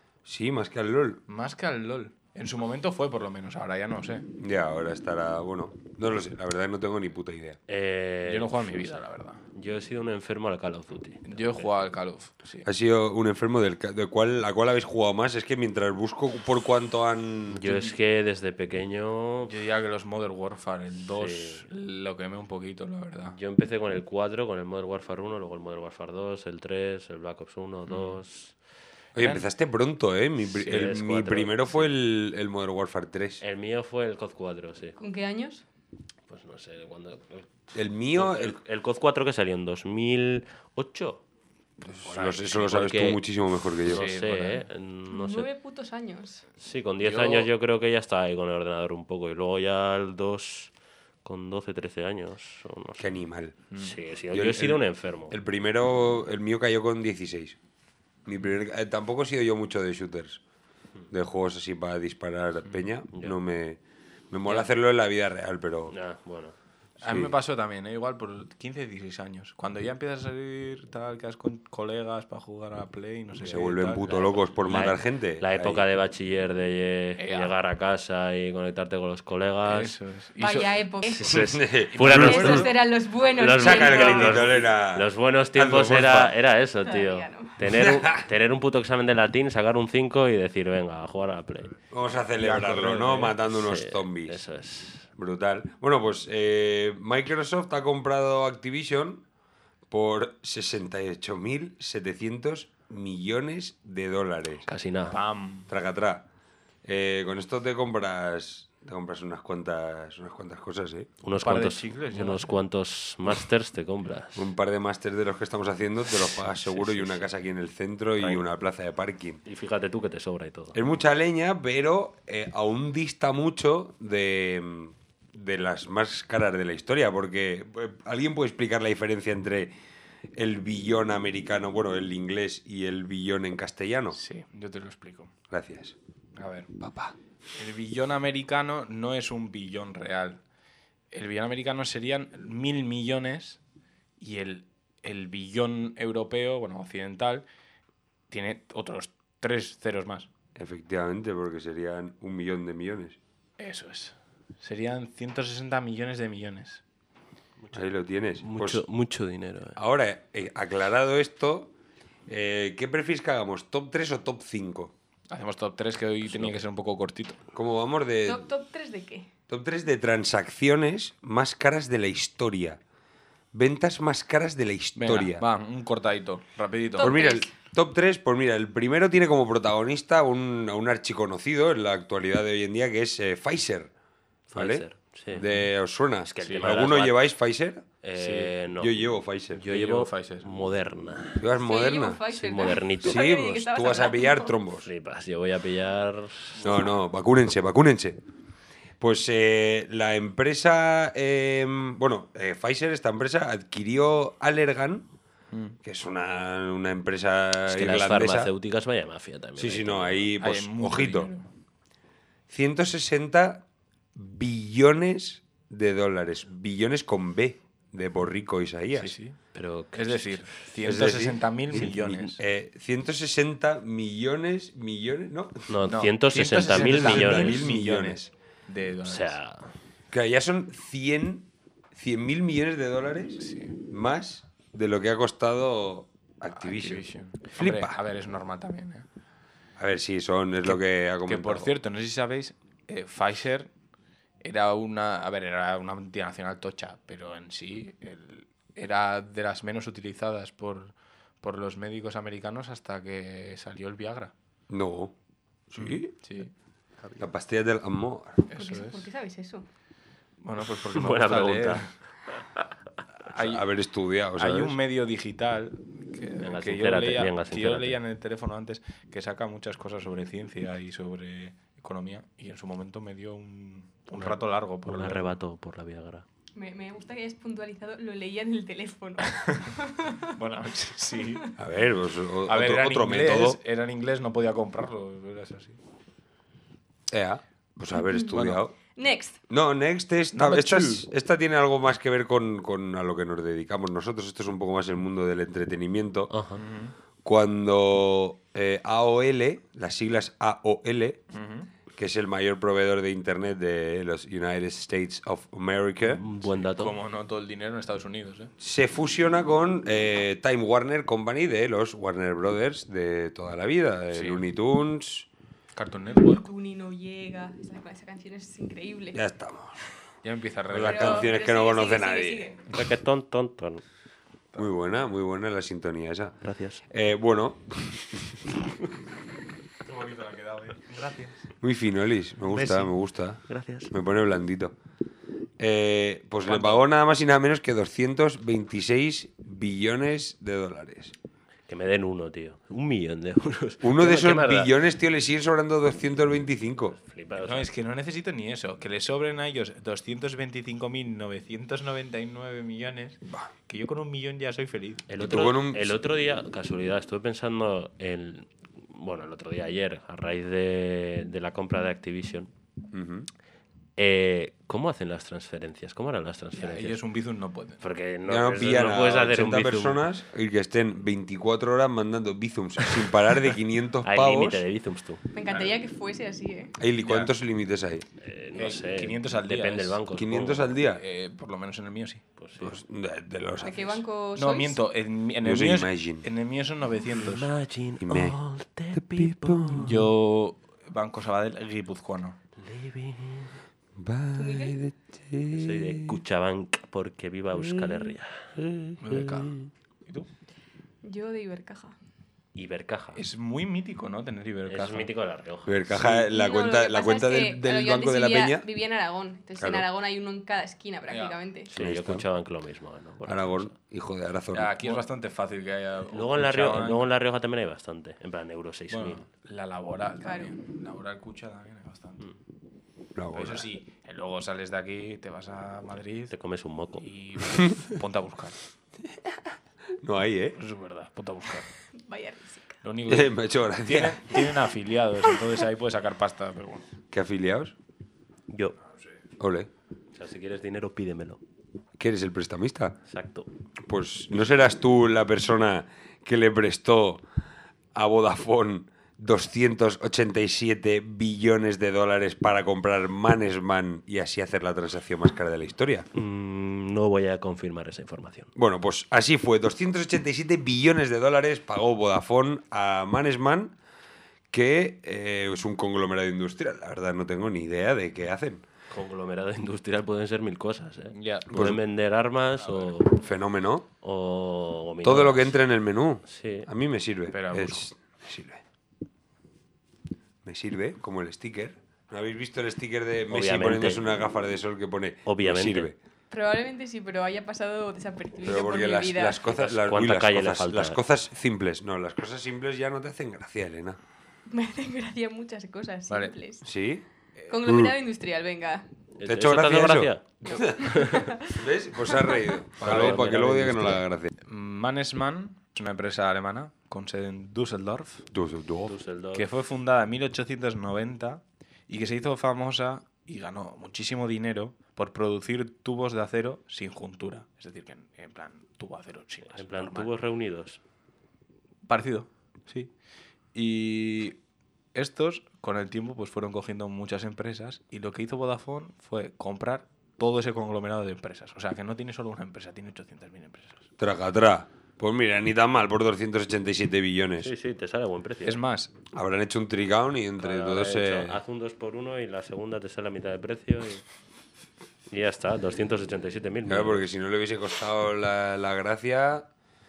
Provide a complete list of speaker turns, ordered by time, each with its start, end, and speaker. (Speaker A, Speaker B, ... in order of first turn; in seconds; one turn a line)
Speaker A: 0.2-1.2
Speaker B: 1.3-4.3
Speaker A: 4.4-7.6
Speaker C: 7.7-11.8
Speaker B: 8.2-9.4
Speaker B: 11.2-12.7
Speaker A: 12.7-17.9
Speaker C: 17.5-19.5
Speaker B: 19.5-23.4
Speaker C: 21.1-21.7
Speaker C: 23.3-28.6
Speaker A: 29.1-33.4
Speaker C: 30.6-31.9
Speaker C: 33.4-35.0
Speaker D: 35.0-35.6
Speaker C: 36.3-37.5
Speaker A: 37.7-38.6
Speaker C: 38.1-41.2
Speaker A: 41.8-44.0
Speaker C: 42.0-45.5
Speaker B: 43.9-44.7
Speaker D: 45.1-46.5
Speaker C: 46.6-50.7
Speaker B: 47.0-47.5
Speaker C: 51.2-53.1
Speaker A: 53.0-53.6
Speaker C: 53.8-55.4
Speaker A: 54.3-57.6
Speaker A: 58.3-60.4
Speaker A: 61.1-63.8
Speaker A: 64.3-66.0
Speaker C: 65.9-66.5
Speaker B: 67.0-74.3
Speaker A: 67.0-67.3
Speaker A: 73.4-75.9
Speaker C: 74.7-80.0
Speaker B: 77.2-77.5
Speaker B: 79.7-80.8
Speaker D: 80.4-81.4
Speaker C: 81.0-91.8
Speaker A: 81.2-82.7
Speaker B: 81.9-82.4
Speaker D: 82.1-84.5
Speaker A: 83.5-86.4
Speaker D: 86.8-87.5
Speaker A: 87.6-88.3
Speaker A: 91.9-94.4
Speaker B: 92.4-93.4
Speaker C: 93.5-95.1
Speaker A: 95.2-99.2
Speaker A: 99.9-104.7
Speaker C: 104.7-105.2
Speaker B: 105.1-105.7
Speaker A: 105.7-106.3
Speaker A: 106.8-111.1
Speaker C: 111.2-114.5
Speaker B: 111.4-112.6
Speaker A: 114.4-119.4
Speaker C: 116.4-117.3
Speaker C: 118.2-118.5
Speaker C: 119.5-120.8
Speaker A: 120.7-129.7
Speaker A: 130.3-134.2
Speaker B: 134.1-135.3
Speaker A: 135.5-136.0
Speaker B: 136.4-136.7
Speaker A: 136.8-137.2
Speaker B: 137.6-140.4
Speaker B: 141.1-143.6
Speaker B: 144.2-147.5
Speaker B: 148.3-150.3
Speaker A: 150.6-153.2
Speaker B: 153.6-156.8
Speaker A: 157.7-158.8
Speaker C: 158.4-159.8
Speaker A: 159.8-161.7
Speaker A: 162.3-164.9
Speaker B: 165.3-167.4
Speaker C: 166.3-166.6
Speaker A: 167.5-168.5
Speaker D: 168.2-169.3
Speaker A: 169.5-172.8
Speaker A: 173.5-175.4
Speaker B: 175.0-177.2
Speaker D: 176.9-177.5
Speaker A: 177.0-183.9
Speaker C: 184.5-185.5
Speaker A: 184.5-187.9
Speaker C: 186.3-187.3
Speaker C: 188.0-188.9
Speaker B: 188.2-188.5
Speaker A: 188.8-189.6
Speaker C: 189.6-191.5
Speaker B: 189.6-190.5
Speaker A: 191.4-194.9
Speaker D: 191.6-194.6
Speaker C: 192.3-193.3
Speaker C: 194.8-196.7
Speaker A: 196.6-198.2
Speaker A: 199.0-205.1
Speaker A: 205.8-208.5
Speaker C: 207.7-210.3
Speaker A: 209.6-211.3
Speaker B: 210.4-211.5
Speaker A: 212.5-219.2
Speaker B: 218.9-219.4
Speaker C: 219.5-220.5
Speaker B: 219.9-222.4
Speaker A: 220.8-225.7
Speaker C: 221.7-222.3
Speaker C: 225.7-227.7
Speaker B: 225.8-229.4
Speaker A: 226.7-228.3
Speaker C: 229.1-229.7
Speaker A: 230.1-238.0
Speaker B: 233.4-233.8
Speaker B: 236.5-239.1
Speaker A: 239.8-241.7
Speaker B: 240.6-243.7
Speaker B: 244.4-254.3
Speaker A: 254.7-255.1
Speaker A: 255.7-256.1
Speaker B: 255.8-256.5
Speaker A: 257.2-258.4
Speaker B: 258.5-259.1
Speaker D: 258.5-259.7
Speaker B: 260.4-261.9
Speaker C: 260.9-262.4
Speaker B: 263.2-263.6
Speaker A: 263.3-264.8
Speaker B: 264.4-275.4
Speaker C: 266.4-268.0
Speaker C: 274.2-276.3
Speaker D: 276.6-280.3
Speaker B: 279.3-279.6
Speaker B: 280.3-281.5
Speaker D: 281.2-281.5
Speaker A: 281.6-283.6
Speaker B: 282.5-285.8
Speaker A: 287.1-288.8
Speaker D: 287.9-289.4
Speaker A: 289.5-296.3
Speaker B: 290.3-291.1
Speaker C: 296.3-296.6
Speaker B: 296.6-296.9
Speaker A: 297.2-301.2
Speaker B: 301.3-301.7
Speaker A: 301.9-306.2
Speaker C: 306.1-307.0
Speaker B: 306.5-308.5
Speaker A: 308.6-315.3
Speaker B: 314.1-314.4
Speaker B: 315.8-316.5
Speaker D: 316.1-319.2
Speaker A: 319.1-319.8
Speaker B: 320.2-321.3
Speaker A: 320.7-322.5
Speaker D: 320.8-322.6
Speaker C: 322.7-323.8
Speaker A: 324.6-326.4
Speaker C: 326.4-326.8
Speaker A: 326.9-328.5
Speaker B: 329.9-331.4
Speaker A: 331.6-334.8
Speaker B: 332.5-332.9
Speaker C: 333.5-333.9
Speaker A: 335.6-341.1
Speaker B: 336.4-336.8
Speaker C: 341.7-344.7
Speaker A: 343.8-347.0
Speaker C: 347.0-347.7
Speaker B: 347.4-355.1
Speaker C: 355.1-362.5
Speaker A: 355.2-356.0
Speaker A: 362.9-363.3
Speaker C: 364.0-367.0
Speaker B: 366.6-367.8
Speaker C: 367.8-370.0
Speaker A: 368.3-374.6
Speaker C: 374.0-375.3
Speaker D: 375.3-376.8
Speaker A: 376.8-378.1
Speaker B: 377.0-377.3
Speaker C: 378.2-380.8
Speaker B: 378.5-380.0
Speaker A: 380.1-381.0
Speaker B: 380.9-382.2
Speaker C: 382.4-382.7
Speaker A: 382.6-384.0
Speaker D: 383.6-384.8
Speaker B: 384.4-387.5
Speaker A: 385.4-386.3
Speaker C: 387.1-390.0
Speaker A: 388.0-388.4
Speaker A: 388.9-390.1
Speaker B: 389.8-392.4
Speaker C: 392.6-393.6
Speaker A: 394.0-396.2
Speaker D: 394.3-394.8
Speaker C: 395.5-398.9
Speaker A: 397.6-398.1
Speaker B: 399.0-400.3
Speaker D: 401.0-401.9
Speaker C: 402.6-403.2
Speaker B: 403.1-405.1
Speaker C: 404.7-405.9
Speaker A: 405.7-408.7
Speaker D: 406.0-411.7
Speaker A: 409.6-409.9
Speaker B: 411.1-411.4
Speaker C: 411.7-413.7
Speaker A: 411.8-412.2
Speaker A: 413.2-414.8
Speaker B: 414.5-417.0
Speaker C: 416.1-419.2
Speaker B: 418.9-422.3
Speaker D: 420.2-420.5
Speaker A: 423.1-423.7
Speaker B: 423.3-426.4
Speaker C: 426.3-427.1
Speaker B: 427.0-428.6
Speaker A: 430.0-430.6
Speaker B: 430.6-431.7
Speaker D: 432.0-432.8
Speaker B: 432.8-436.8
Speaker A: 433.1-434.4
Speaker A: 437.1-437.7
Speaker C: 438.5-438.8
Speaker A: 439.4-439.7
Speaker C: 440.1-441.4
Speaker A: 442.0-443.0
Speaker C: 443.1-443.5
Speaker A: 443.9-447.2
Speaker A: 447.9-456.1
Speaker C: 456.1-458.5
Speaker A: 458.6-463.8
Speaker A: 464.5-468.6
Speaker C: 468.9-473.2
Speaker B: 471.1-471.5
Speaker A: 471.5-471.8
Speaker B: 472.7-472.9
Speaker A: 473.2-473.9
Speaker C: 474.0-475.6
Speaker A: 475.0-478.6
Speaker C: 476.3-476.7
Speaker B: 477.3-477.9
Speaker A: 480.4-486.0
Speaker C: 483.3-484.1
Speaker C: 485.3-485.9
Speaker D: 486.3-489.5
Speaker A: 488.4-494.0
Speaker C: 489.7-491.0
Speaker D: 494.5-496.7
Speaker A: 496.6-497.1
Speaker D: 497.5-498.9
Speaker A: 497.6-497.9
Speaker C: 499.2-501.3
Speaker A: 499.3-500.9
Speaker D: 500.4-501.5
Speaker A: 501.5-504.3
Speaker D: 502.1-502.5
Speaker C: 502.8-504.0
Speaker B: 502.8-503.4
Speaker B: 504.4-508.3
Speaker A: 508.3-508.9
Speaker C: 508.9-509.5
Speaker B: 509.3-520.1
Speaker C: 519.5-520.8
Speaker B: 521.9-522.9
Speaker B: 523.5-524.4
Speaker B: 524.9-533.9
Speaker A: 534.0-537.5
Speaker C: 537.4-538.6
Speaker B: 538.5-538.9
Speaker A: 539.1-541.4
Speaker C: 540.4-544.0
Speaker C: 545.1-547.0
Speaker A: 546.7-549.5